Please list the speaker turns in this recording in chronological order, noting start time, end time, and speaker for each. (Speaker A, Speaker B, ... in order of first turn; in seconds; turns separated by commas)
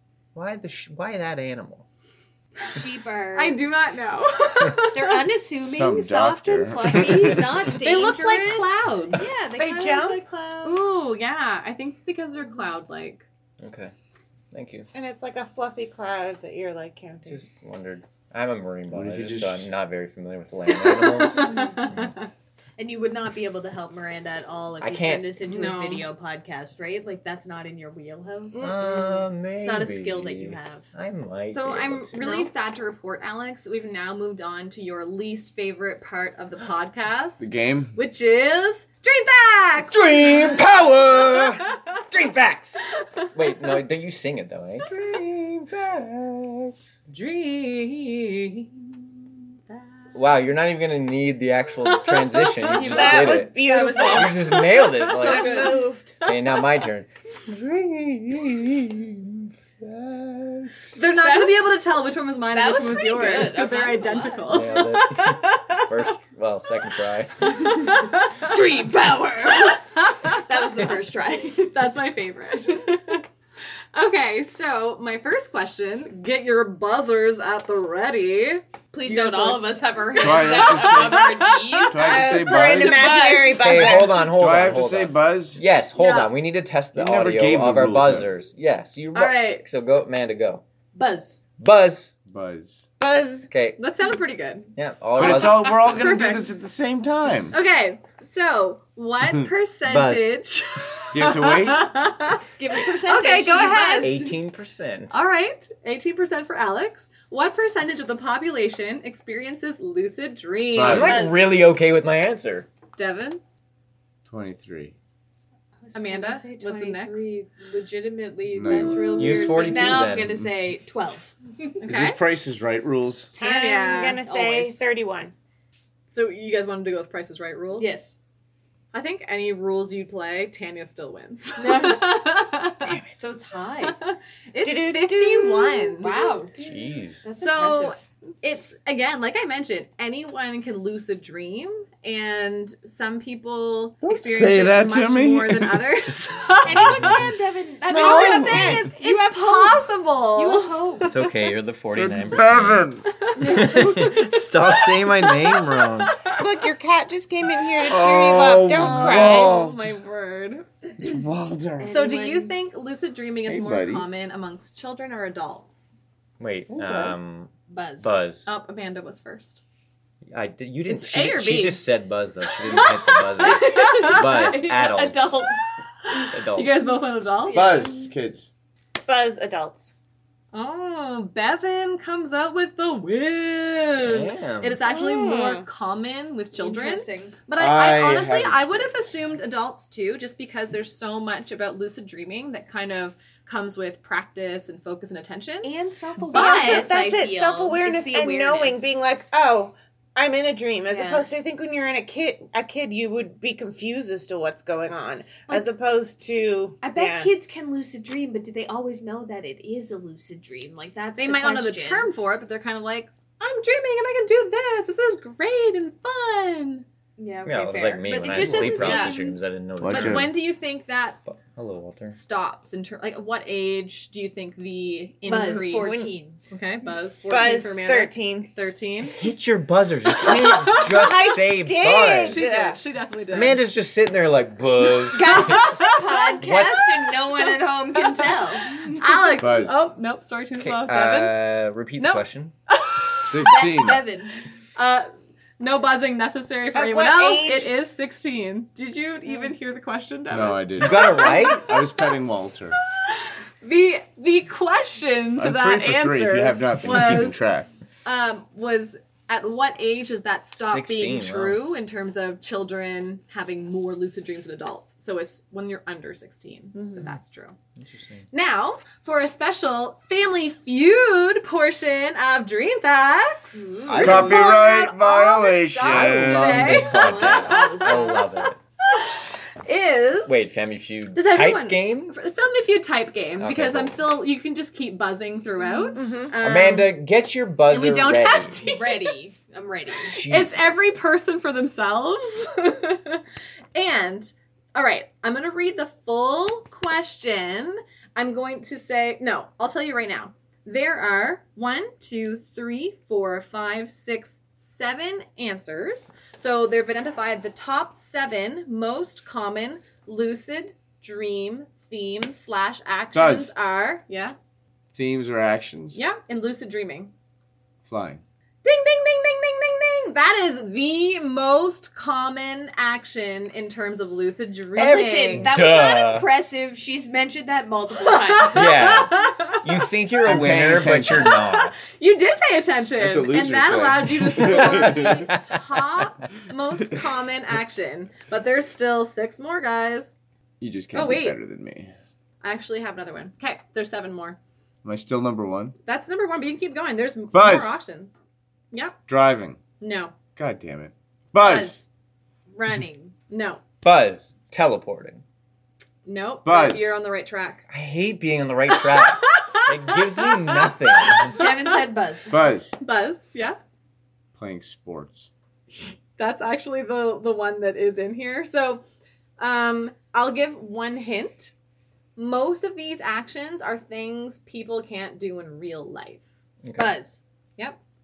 Speaker A: 0.3-1.8, Speaker B: 2.7-3.6, Speaker C: 3.3-5.3, Speaker B: 4.8-10.8, Speaker D: 5.6-7.7, Speaker C: 7.7-9.3, Speaker E: 9.5-10.3, Speaker C: 10.6-13.2, Speaker A: 13.6-13.9, Speaker A: 14.5-14.9, Speaker E: 14.9-17.4, Speaker A: 17.3-21.6, Speaker D: 18.9-19.7, Speaker C: 20.7-22.3, Speaker B: 21.4-21.8, Speaker B: 22.8-28.8, Speaker A: 24.8-25.4, Speaker C: 25.4-26.1, Speaker C: 28.5-29.2, Speaker A: 28.6-32.5, Speaker B: 29.6-30.9, Speaker C: 31.5-40.4, Speaker D: 37.4-37.9, Speaker A: 39.9-42.8, Speaker A: 43.3-46.8, Speaker C: 47.1-49.0, Speaker C: 49.7-50.2, Speaker A: 50.1-61.0, Speaker C: 51.9-53.1, Speaker B: 52.7-56.0, Speaker E: 52.8-54.6, Speaker C: 54.9-56.6, Speaker E: 55.2-55.9, Speaker C: 60.9-66.1, Speaker B: 61.1-61.7, Speaker B: 62.5-64.6, Speaker A: 64.5-67.7, Speaker C: 67.5-68.8, Speaker B: 68.3-71.7, Speaker C: 69.4-70.8, Speaker C: 71.6-73.2, Speaker C: 73.9-82.2, Speaker B: 78.9-83.9, Speaker D: 80.2-81.3, Speaker D: 81.9-83.2, Speaker E: 82.0-84.3, Speaker A: 83.5-90.6, Speaker D: 84.2-85.6, Speaker C: 86.0-86.3, Speaker D: 86.9-88.3, Speaker C: 89.1-89.7, Speaker B: 91.0-91.4, Speaker A: 91.6-92.1, Speaker D: 92.2-92.9, Speaker E: 93.0-93.5, Speaker A: 93.5-93.8, Speaker C: 93.8-96.5, Speaker A: 94.8-95.8, Speaker D: 95.2-97.6, Speaker C: 97.5-104.3, Speaker A: 99.8-100.4, Speaker D: 101.1-101.9, Speaker B: 102.6-104.2, Speaker A: 104.0-105.1, Speaker C: 105.1-111.3, Speaker D: 110.7-111.3, Speaker A: 110.8-112.7, Speaker B: 110.9-111.5, Speaker C: 113.0-113.4, Speaker D: 114.2-114.9, Speaker B: 115.8-121.8, Speaker C: 115.9-117.3, Speaker D: 118.5-119.5, Speaker C: 118.7-119.0, Speaker A: 119.1-120.4, Speaker C: 121.8-122.2, Speaker D: 121.8-123.3, Speaker E: 123.3-125.3, Speaker C: 123.4-124.2, Speaker B: 124.2-124.8, Speaker C: 126.1-128.0, Speaker B: 127.8-128.2, Speaker C: 128.9-133.0, Speaker B: 131.6-132.1, Speaker B: 133.1-134.0, Speaker C: 133.8-136.2, Speaker E: 134.6-136.4, Speaker B: 136.0-138.0, Speaker A: 136.6-137.2, Speaker C: 137.4-147.2, Speaker D: 144.0-145.9, Speaker B: 146.6-151.1, Speaker D: 146.8-147.2, Speaker C: 147.9-151.3, Speaker D: 147.9-148.8, Speaker E: 148.2-148.8, Speaker A: 151.1-152.9, Speaker D: 151.9-153.2, Speaker C: 153.2-156.4, Speaker B: 153.4-154.1, Speaker A: 153.4-156.1, Speaker E: 156.3-159.5, Speaker D: 157.8-159.9, Speaker A: 158.3-159.4, Speaker C: 158.7-161.2, Speaker D: 161.0-162.0, Speaker B: 161.8-162.5, Speaker C: 161.9-165.9, Speaker D: 163.4-164.1, Speaker A: 166.4-168.5, Speaker D: 166.7-167.2, Speaker B: 167.7-168.1, Speaker C: 168.4-169.6, Speaker A: 170.3-175.4, Speaker C: 170.9-171.8, Speaker C: 172.7-174.9, Speaker B: 173.4-175.7, Speaker C: 176.1-177.7, Speaker A: 176.3-176.8, Speaker B: 177.4-178.1, Speaker D: 177.5-178.5, Speaker E: 179.0-179.9, Speaker C: 180.5-195.7, Speaker A: 184.0-184.8, Speaker E: 184.9-185.7, Speaker B: 186.5-187.4, Speaker D: 187.6-189.2, Speaker B: 195.6-198.9, Speaker E: 196.3-207.3, Speaker C: 196.3-197.0, Speaker B: 200.9-201.3, Speaker B: 206.8-212.1, Speaker C: 211.2-216.8, Speaker B: 217.2-219.3, Speaker A: 217.4-220.3, Speaker C: 218.1-219.3, Speaker D: 219.8-220.3, Speaker C: 219.9-221.2, Speaker A: 221.2-222.2, Speaker C: 222.1-229.2, Speaker B: 225.2-226.4, Speaker E: 225.4-226.1, Speaker E: 227.3-228.5, Speaker A: 229.1-232.8, Speaker C: 230.2-231.1, Speaker E: 230.7-232.8, Speaker C: 232.2-233.7, Speaker A: 233.3-235.7, Speaker C: 235.1-236.7, Speaker B: 235.1-239.4, Speaker A: 236.4-236.9, Speaker C: 237.4-241.3, Speaker D: 239.4-239.8, Speaker A: 240.6-242.5, Speaker C: 242.0-243.9, Speaker D: 243.2-244.0, Speaker B: 243.4-244.4, Speaker C: 244.7-245.1, Speaker C: 245.6-252.1, Speaker E: 246.7-247.8, Speaker D: 250.3-252.8, Speaker A: 250.8-251.7, Speaker C: 253.0-257.4, Speaker D: 255.4-257.7, Speaker C: 258.0-267.6, Speaker A: 260.6-261.6, Speaker A: 267.8-268.2, Speaker C: 268.3-280.4, Speaker B: 273.5-274.3, Speaker A: 273.9-274.5, Speaker D: 274.0-277.0, Speaker A: 275.8-278.6, Speaker B: 276.7-278.3, Speaker A: 280.2-282.1, Speaker C: 281.1-286.9, Speaker A: 283.4-284.1, Speaker B: 285.6-286.0, Speaker E: 285.9-286.3, Speaker A: 286.4-288.6, Speaker C: 287.7-289.3, Speaker B: 288.6-290.2, Speaker A: 290.1-290.9, Speaker C: 290.2-314.4, Speaker D: 313.1-313.5, Speaker D: 314.9-316.0, Speaker C: 315.9-317.1, Speaker D: 317.8-318.2, Speaker C: 318.6-325.5, Speaker B: 324.7-328.9, Speaker A: 324.8-326.3, Speaker C: 328.0-329.7, Speaker A: 328.5-331.8, Speaker D: 330.2-331.4, Speaker C: 331.1-340.2, Speaker D: 333.0-335.3, Speaker A: 334.6-335.5, Speaker D: 340.6-341.9, Speaker C: 340.9-341.4, Speaker C: 342.4-344.4, Speaker D: 344.8-345.7, Speaker C: 345.9-348.2, Speaker D: 347.3-347.8, Speaker C: 348.7-349.0, Speaker D: 349.1-349.6, Speaker C: 349.8-350.1, Speaker D: 350.3-351.8, Speaker B: 351.4-351.9, Speaker B: 352.5-353.1, Speaker C: 353.3-353.6, Speaker A: 353.8-355.2, Speaker C: 356.0-357.6, Speaker D: 356.4-357.0, Speaker A: 357.7-361.4, Speaker C: 358.8-361.7, Speaker B: 361.3-362.3, Speaker D: 362.3-362.8, Speaker C: 362.8-363.6, Speaker D: 364.3-365.3, Speaker C: 365.7-368.8, Speaker C: 369.4-371.5, Speaker C: 372.1-376.2, Speaker A: 376.6-376.9, Speaker B: 376.8-377.2